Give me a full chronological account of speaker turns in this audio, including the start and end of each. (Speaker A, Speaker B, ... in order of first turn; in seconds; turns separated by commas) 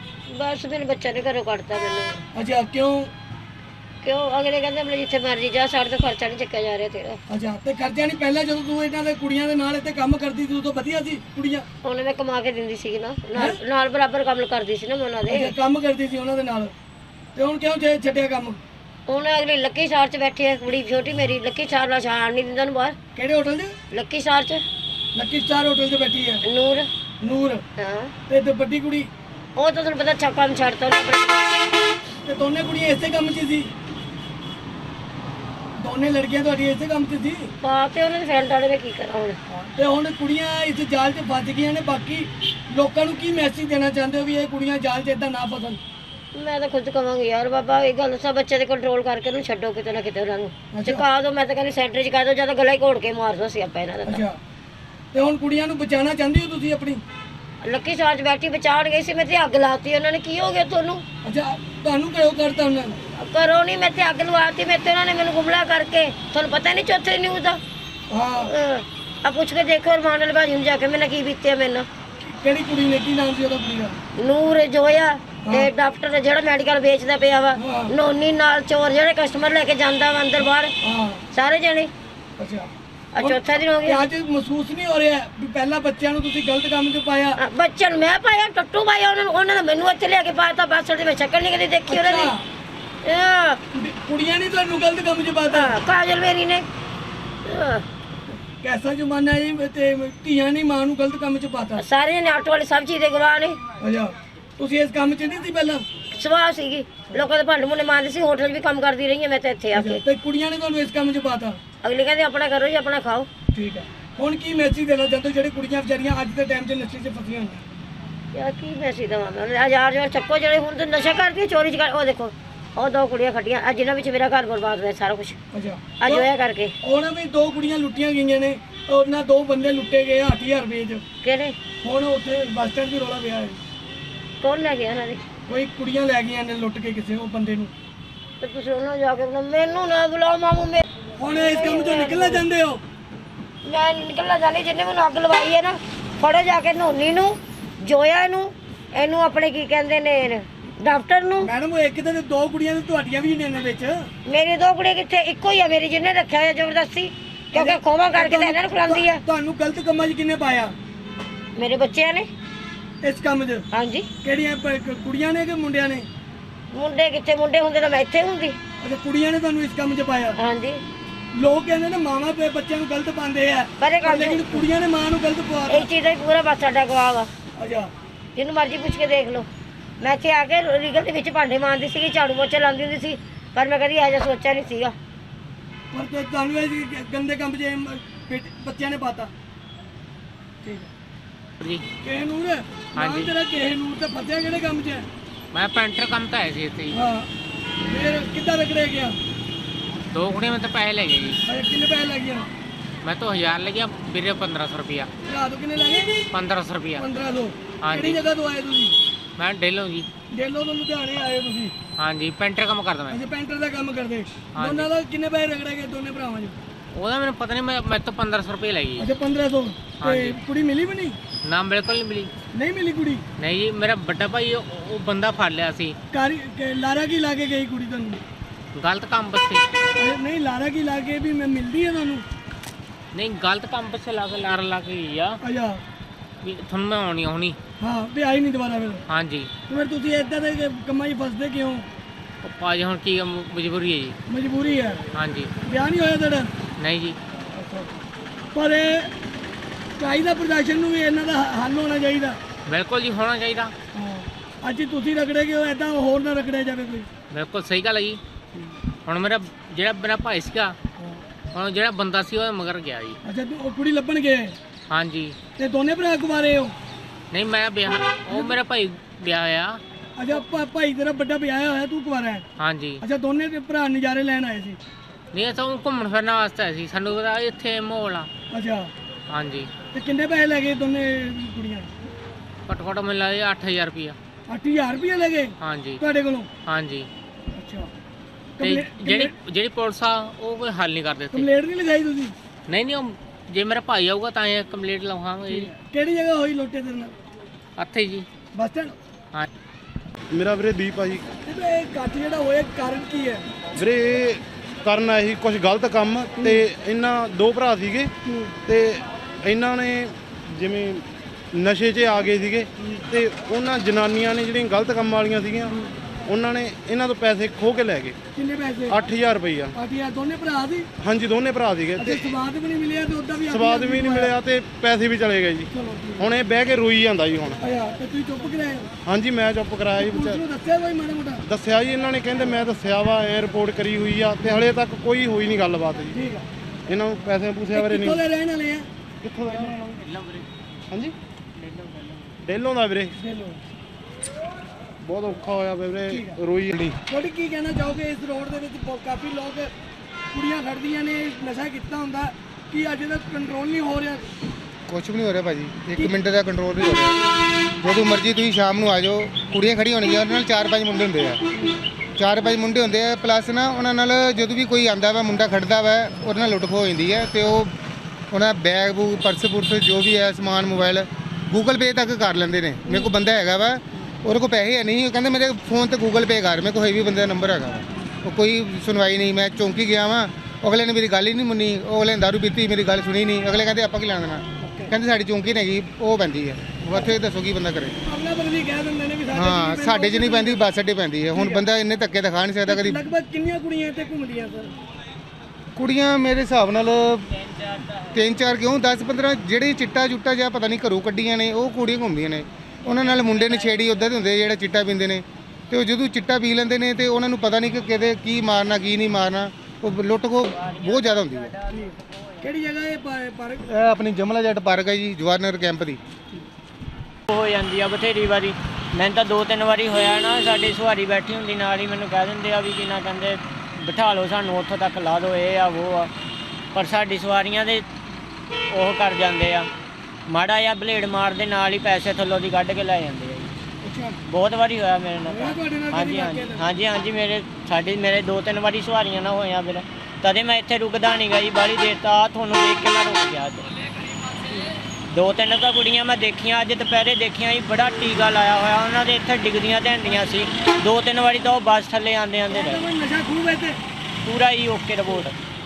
Speaker A: 0.3-2.2, Speaker B: 2.3-3.1, Speaker A: 4.0-7.2, Speaker B: 7.3-11.7, Speaker A: 11.8-15.5, Speaker B: 15.3-16.7, Speaker B: 17.4-18.6, Speaker A: 19.1-23.0, Speaker B: 23.2-23.8, Speaker A: 23.9-24.6, Speaker B: 25.1-26.4, Speaker A: 26.4-26.9, Speaker B: 27.2-27.6, Speaker A: 27.8-28.1, Speaker B: 28.3-29.1, Speaker A: 29.6-31.8, Speaker B: 32.2-33.7, Speaker B: 35.8-37.5, Speaker A: 37.6-39.4, Speaker B: 39.5-45.8, Speaker A: 46.4-54.2, Speaker B: 50.7-51.0, Speaker B: 54.1-54.4, Speaker B: 55.1-57.0, Speaker A: 57.6-61.0, Speaker B: 61.2-63.0, Speaker A: 63.1-67.6, Speaker B: 68.1-68.5, Speaker A: 68.4-71.9, Speaker B: 72.2-74.0, Speaker A: 74.2-80.7, Speaker B: 75.4-75.7, Speaker B: 77.6-77.9, Speaker B: 80.8-81.2, Speaker A: 81.3-81.9, Speaker B: 82.4-87.4, Speaker A: 83.1-84.0, Speaker A: 87.4-92.3, Speaker B: 91.9-92.5, Speaker A: 93.0-93.6, Speaker B: 93.7-95.8, Speaker A: 95.5-96.7, Speaker A: 97.5-97.8, Speaker B: 98.6-101.8, Speaker A: 101.8-103.6, Speaker B: 103.8-105.8, Speaker A: 106.1-110.0, Speaker B: 109.7-111.6, Speaker A: 111.8-113.3, Speaker B: 113.5-117.7, Speaker A: 118.3-125.4, Speaker B: 125.5-126.3, Speaker A: 126.0-126.8, Speaker B: 126.8-131.0, Speaker A: 131.2-131.6, Speaker B: 131.8-133.6, Speaker A: 134.4-135.2, Speaker B: 135.5-137.7, Speaker A: 138.4-142.4, Speaker B: 141.2-142.8, Speaker A: 143.7-151.5, Speaker B: 151.4-154.1, Speaker A: 154.3-159.2, Speaker B: 157.5-160.8, Speaker A: 161.6-162.3, Speaker B: 163.0-163.7, Speaker A: 163.7-164.1, Speaker B: 164.2-166.1, Speaker A: 166.7-168.6, Speaker B: 168.8-170.4, Speaker A: 170.4-170.8, Speaker B: 171.3-175.9, Speaker A: 173.8-174.6, Speaker A: 175.7-177.3, Speaker B: 177.6-177.9, Speaker A: 178.4-179.5, Speaker A: 180.0-184.9, Speaker B: 185.9-189.3, Speaker B: 190.6-190.9, Speaker B: 192.0-195.1, Speaker C: 192.9-193.3, Speaker C: 195.5-197.0, Speaker B: 196.9-197.3, Speaker B: 197.8-199.2, Speaker C: 200.1-201.4, Speaker B: 201.5-202.5, Speaker C: 203.0-205.1, Speaker B: 205.3-206.2, Speaker C: 206.3-207.1, Speaker B: 207.0-209.0, Speaker C: 207.8-208.2, Speaker C: 209.4-210.1, Speaker B: 210.3-211.7, Speaker C: 212.0-213.2, Speaker B: 213.1-216.6, Speaker C: 214.6-214.9, Speaker C: 216.9-219.1, Speaker B: 219.0-221.2, Speaker C: 220.0-220.4, Speaker C: 221.4-222.3, Speaker B: 222.5-223.2, Speaker C: 223.4-226.0, Speaker B: 226.1-228.2, Speaker C: 228.8-229.7, Speaker B: 229.9-232.3, Speaker C: 233.1-235.4, Speaker B: 235.4-235.8, Speaker C: 236.4-237.6, Speaker B: 237.8-239.0, Speaker C: 239.1-239.5, Speaker B: 239.7-241.9, Speaker C: 242.4-244.2, Speaker B: 244.3-245.0, Speaker C: 245.2-245.5, Speaker B: 245.6-246.5, Speaker C: 246.8-247.2, Speaker B: 247.5-249.1, Speaker B: 250.0-252.4, Speaker C: 252.7-253.7, Speaker B: 253.9-257.1, Speaker C: 257.3-258.2, Speaker C: 259.1-260.8, Speaker C: 261.5-263.2, Speaker B: 263.2-264.6, Speaker C: 264.9-265.4, Speaker B: 265.6-266.7, Speaker C: 267.3-269.8, Speaker B: 268.3-268.6, Speaker B: 270.2-272.4, Speaker C: 272.6-273.0, Speaker B: 273.0-274.8, Speaker C: 275.3-278.3, Speaker B: 278.5-278.9, Speaker C: 279.3-279.7, Speaker B: 279.9-282.1, Speaker C: 282.7-284.2, Speaker B: 284.5-286.5, Speaker C: 285.6-286.0, Speaker C: 286.7-287.1, Speaker B: 287.5-287.9, Speaker B: 288.6-289.3, Speaker C: 288.6-291.5, Speaker B: 291.3-292.4, Speaker C: 292.7-295.7, Speaker B: 295.5-297.1, Speaker C: 297.8-298.3, Speaker B: 298.5-299.0, Speaker D: 300.3-301.2, Speaker B: 301.4-303.5, Speaker D: 303.8-308.1, Speaker B: 306.4-306.6, Speaker B: 308.2-308.6, Speaker D: 308.7-315.8, Speaker D: 316.3-318.2, Speaker B: 318.4-319.0, Speaker D: 318.9-319.8, Speaker B: 319.8-320.9, Speaker D: 321.0-322.4, Speaker B: 322.0-324.3, Speaker D: 323.5-327.6, Speaker B: 325.7-326.3, Speaker B: 327.6-328.9, Speaker D: 329.1-330.4, Speaker B: 329.9-331.4, Speaker D: 331.5-336.2, Speaker B: 336.1-336.5, Speaker D: 336.9-338.2, Speaker B: 337.7-338.9, Speaker D: 339.2-339.8, Speaker C: 339.8-340.4, Speaker D: 340.9-341.1, Speaker C: 341.6-342.1, Speaker D: 342.4-343.2, Speaker B: 343.2-343.7, Speaker D: 345.0-346.7, Speaker B: 346.1-346.4, Speaker E: 346.7-347.0, Speaker B: 347.1-349.7, Speaker B: 350.3-354.3, Speaker E: 354.9-357.3, Speaker E: 357.8-361.4, Speaker E: 362.2-367.7, Speaker E: 368.3-388.0, Speaker B: 384.6-385.0, Speaker B: 388.1-390.6, Speaker E: 389.4-393.0, Speaker B: 391.3-391.6, Speaker B: 392.6-394.8, Speaker E: 395.8-397.5, Speaker E: 398.0-411.6, Speaker B: 411.7-413.7, Speaker E: 413.7-416.0, Speaker F: 417.3-426.1, Speaker F: 426.8-427.9, Speaker F: 428.7-429.7, Speaker F: 430.3-433.5, Speaker B: 433.8-434.2, Speaker F: 434.3-443.6, Speaker B: 435.3-436.7, Speaker F: 445.1-452.7, Speaker B: 452.5-453.8, Speaker F: 454.2-455.4